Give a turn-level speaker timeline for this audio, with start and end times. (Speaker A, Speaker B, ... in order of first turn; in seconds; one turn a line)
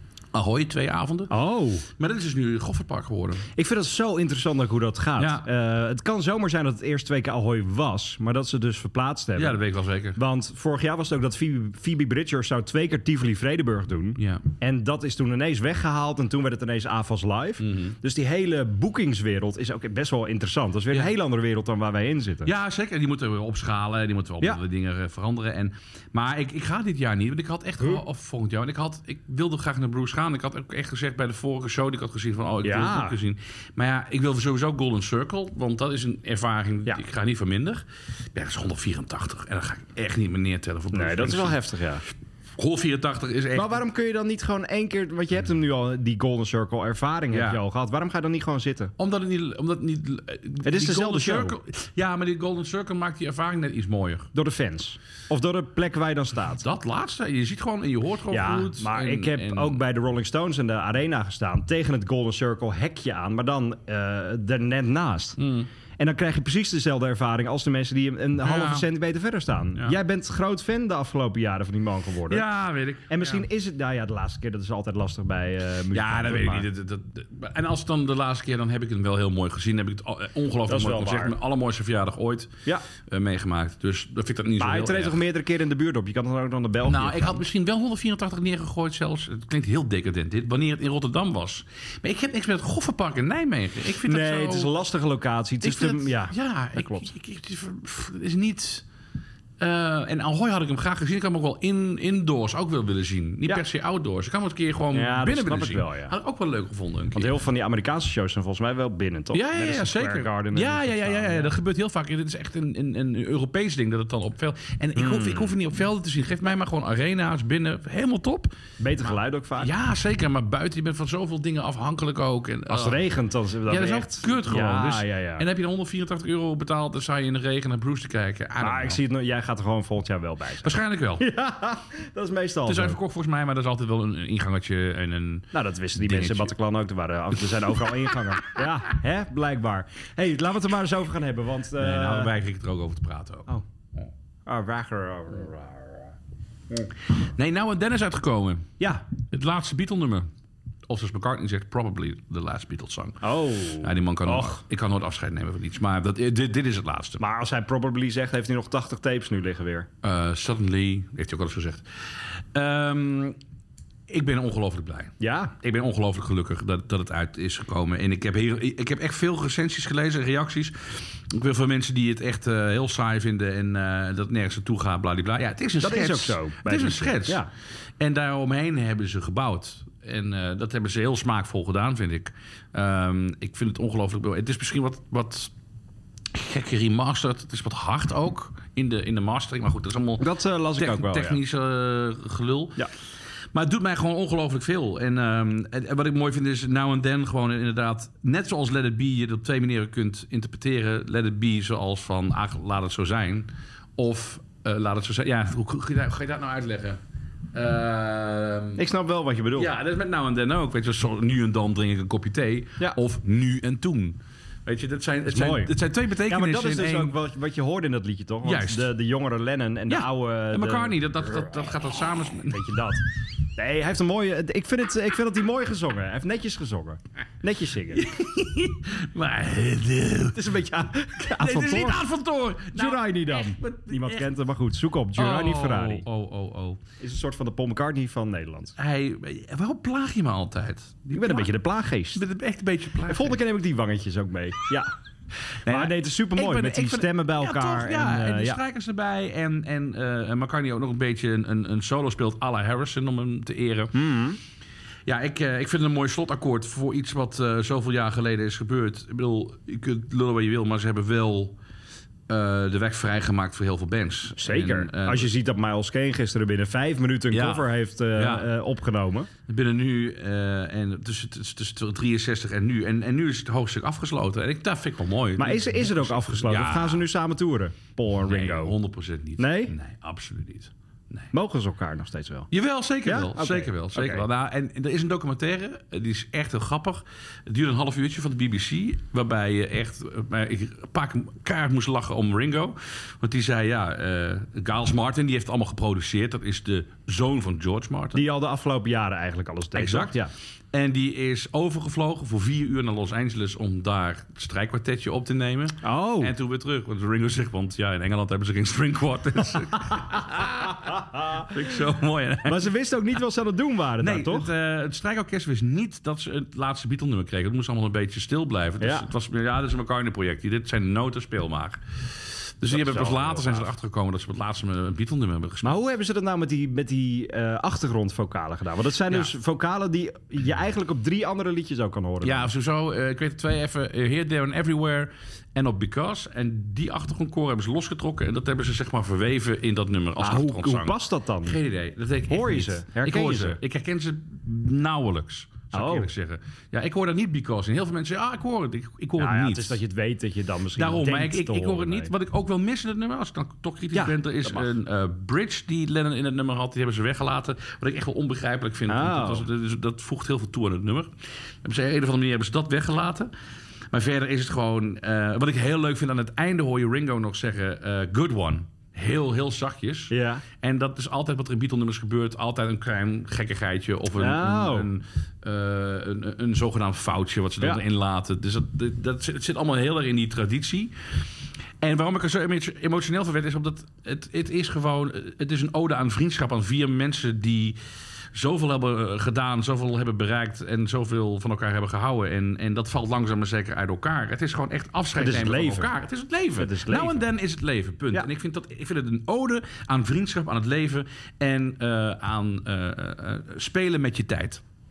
Speaker A: 0.3-1.3
Speaker B: 1.3-1.9
Speaker A: 1.9-3.5
Speaker B: 3.5-9.6
Speaker A: 5.2-5.4
Speaker A: 9.3-10.2
Speaker B: 10.2-22.5
Speaker A: 14.2-14.4
Speaker A: 17.6-17.9
Speaker A: 22.4-41.6
Speaker B: 32.6-33.2
Speaker B: 40.9-42.0
Speaker A: 42.6-43.8
Speaker B: 43.5-48.9
Speaker A: 47.3-47.6
Speaker A: 49.0-54.3
Speaker B: 50.6-51.6
Speaker B: 54.3-56.6
Speaker A: 56.6-59.8
Speaker B: 58.3-65.4
Speaker A: 65.4-65.7
Speaker B: 66.0-72.4
Speaker A: 68.4-68.9
Speaker A: 72.3-73.4
Speaker B: 73.1-76.7
Speaker A: 75.9-85.2
Speaker B: 80.7-81.3
Speaker B: 84.6-87.4
Speaker A: 86.8-94.7
Speaker B: 94.0-97.1
Speaker A: 95.6-98.8
Speaker A: 99.6-107.3
Speaker B: 104.9-106.1
Speaker B: 107.1-111.5
Speaker A: 109.3-118.5
Speaker B: 115.0-115.5
Speaker B: 118.8-119.7
Speaker A: 119.6-123.0
Speaker B: 122.7-125.5
Speaker A: 123.7-129.0
Speaker B: 128.6-133.0
Speaker A: 130.6-131.2
Speaker A: 132.7-136.5
Speaker B: 135.5-142.3
Speaker A: 137.7-138.6
Speaker A: 141.8-144.1
Speaker B: 144.4-146.1
Speaker A: 147.2-150.3
Speaker A: 150.9-157.2
Speaker B: 153.2-154.6
Speaker B: 157.2-159.9
Speaker A: 160.0-161.8
Speaker A: 162.5-163.3
Speaker A: 164.1-177.4
Speaker B: 165.2-165.5
Speaker B: 175.8-177.5
Speaker A: 178.0-185.5
Speaker A: 186.3-192.9
Speaker B: 190.2-191.4
Speaker A: 193.5-207.0
Speaker A: 207.5-208.8
Speaker B: 208.8-209.7
Speaker A: 209.6-217.1
Speaker B: 215.3-221.1
Speaker A: 218.4-218.9
Speaker A: 219.9-222.8
Speaker B: 222.4-223.0
Speaker B: 223.6-228.0
Speaker A: 227.9-230.6
Speaker B: 230.3-232.0
Speaker A: 231.2-234.2
Speaker B: 232.7-236.0
Speaker A: 235.2-236.8
Speaker B: 237.0-238.7
Speaker A: 238.8-241.5
Speaker B: 241.1-242.2
Speaker A: 242.1-243.4
Speaker B: 243.1-244.9
Speaker A: 245.6-253.9
Speaker B: 245.7-248.6
Speaker B: 253.9-254.4
Speaker A: 255.1-261.6
Speaker A: 262.3-265.3
Speaker B: 264.4-269.3
Speaker A: 267.3-268.5
Speaker A: 269.5-277.0
Speaker B: 275.4-278.8
Speaker A: 278.2-281.3
Speaker B: 279.4-279.7
Speaker B: 281.3-282.5
Speaker A: 282.5-298.2
Speaker B: 283.0-284.2
Speaker B: 298.1-300.3
Speaker A: 299.8-300.2
Speaker A: 300.7-312.7
Speaker B: 305.8-306.3
Speaker B: 310.9-311.5
Speaker B: 312.4-314.5
Speaker A: 314.0-325.8
Speaker B: 318.8-319.1
Speaker B: 322.7-323.7
Speaker B: 325.6-332.5
Speaker A: 332.2-349.8
Speaker B: 340.2-341.6
Speaker B: 342.3-343.6
Speaker B: 345.7-346.1
Speaker B: 349.2-352.1
Speaker A: 350.8-363.3
Speaker B: 353.9-354.7
Speaker B: 358.9-359.4
Speaker A: 363.9-380.9
Speaker B: 370.1-370.4
Speaker B: 374.2-374.9
Speaker A: 381.8-387.8
Speaker A: 388.3-404.6
Speaker B: 395.1-395.9
Speaker B: 396.6-397.2